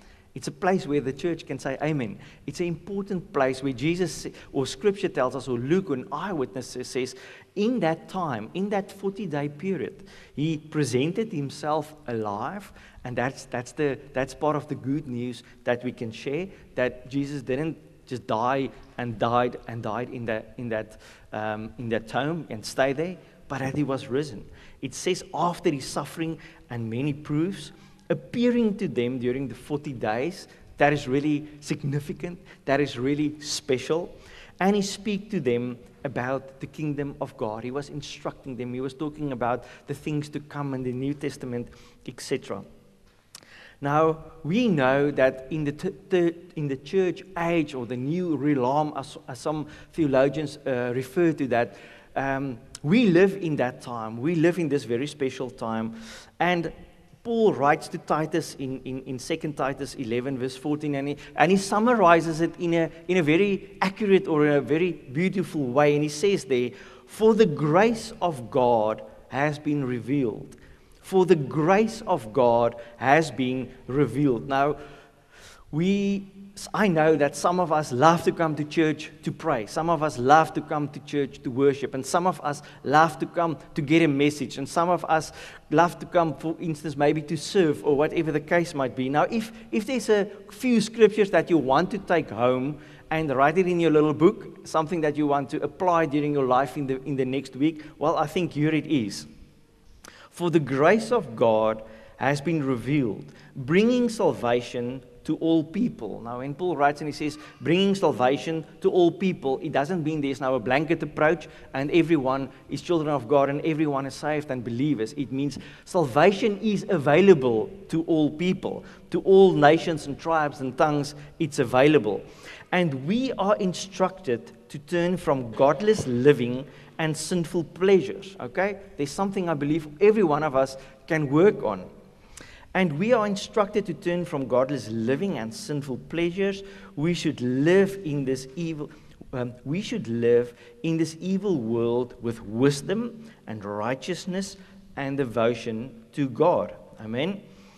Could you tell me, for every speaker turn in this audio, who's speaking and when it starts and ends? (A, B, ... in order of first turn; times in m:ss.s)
0:00.3-0:42.6 A
0:43.8-0:56.7 A
0:57.2-1:14.8 A
1:15.7-1:39.3 A
1:40.3-2:11.9 A
2:12.7-2:27.4 A